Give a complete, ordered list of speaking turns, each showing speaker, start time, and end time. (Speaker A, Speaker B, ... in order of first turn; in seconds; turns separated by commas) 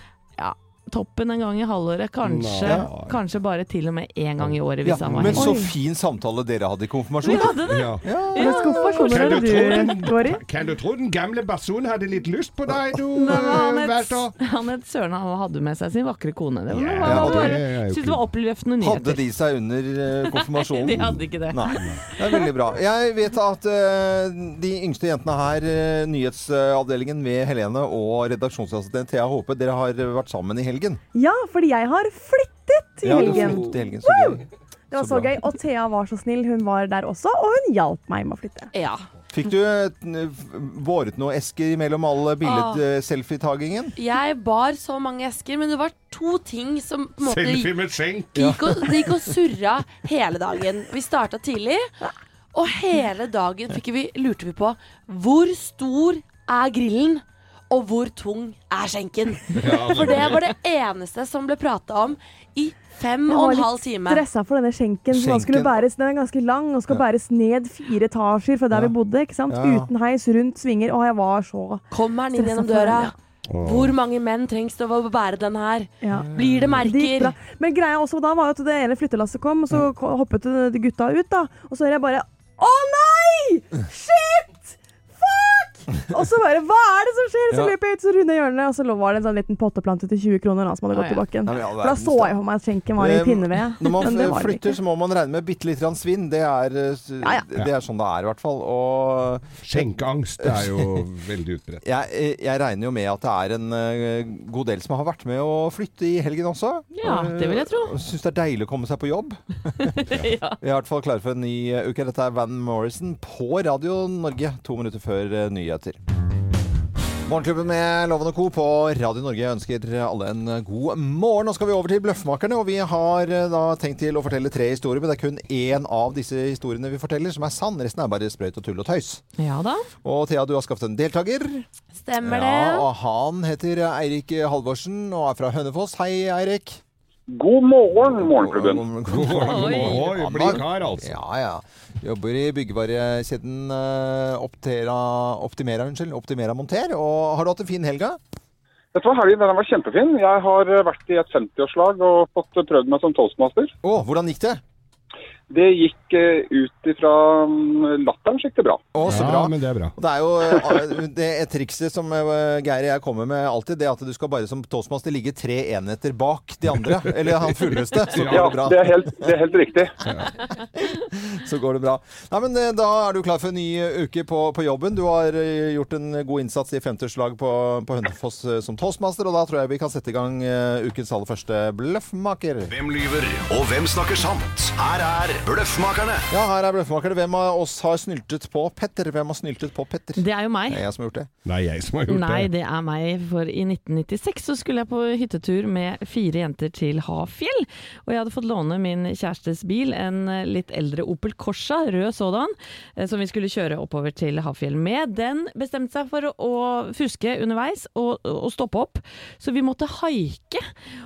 Speaker A: 0.4-5.6, Speaker B: 2.2-3.2, Speaker B: 4.4-5.4, Speaker C: 4.8-9.8, Speaker D: 5.3-5.7, Speaker A: 7.2-9.4, Speaker B: 7.6-8.1, Speaker D: 8.3-10.4, Speaker B: 9.0-14.3, Speaker A: 13.1-19.2, Speaker B: 16.7-18.2, Speaker C: 17.0-17.6, Speaker C: 18.8-31.0, Speaker A: 20.3-22.5, Speaker B: 21.8-22.0, Speaker D: 31.1-38.7, Speaker C: 33.0-34.4, Speaker B: 33.2-33.6, Speaker C: 34.9-35.3, Speaker E: 38.7-39.0, Speaker C: 39.3-43.9, Speaker E: 42.4-42.8, Speaker E: 44.0-47.7, Speaker B: 47.2-48.9, Speaker E: 48.3-51.9, Speaker C: 48.4-48.6, Speaker E: 52.5-64.2, Speaker B: 59.5-60.5, Speaker D: 63.3-73.1, Speaker C: 65.1-65.8, Speaker C: 69.5-69.9, Speaker E: 71.9-77.3, Speaker B: 73.5-74.0, Speaker D: 76.0-94.8, Speaker C: 76.1-76.8, Speaker A: 90.9-91.3, Speaker C: 91.4-92.3, Speaker C: 93.0-101.0, Speaker B: 99.6-101.8, Speaker C: 101.8-110.0, Speaker A: 106.9-107.9, Speaker A: 109.9-110.6, Speaker C: 110.6-116.0, Speaker C: 117.2-129.2, Speaker A: 129.4-129.9, Speaker C: 130.0-131.6, Speaker E: 131.9-132.9, Speaker C: 132.2-136.8, Speaker F: 137.3-138.8, Speaker C: 138.1-148.2, Speaker B: 139.1-141.2, Speaker A: 139.3-140.1, Speaker F: 148.9-153.7, Speaker C: 153.8-154.6, Speaker F: 155.5-158.8, Speaker C: 158.9-169.3, Speaker B: 159.1-159.9, Speaker B: 166.8-168.6, Speaker F: 168.2-170.0, Speaker C: 170.8-182.7, Speaker G: 182.7-186.3, Speaker C: 186.3-191.3, Speaker A: 190.2-190.8, Speaker B: 191.4-192.5, Speaker A: 192.1-210.7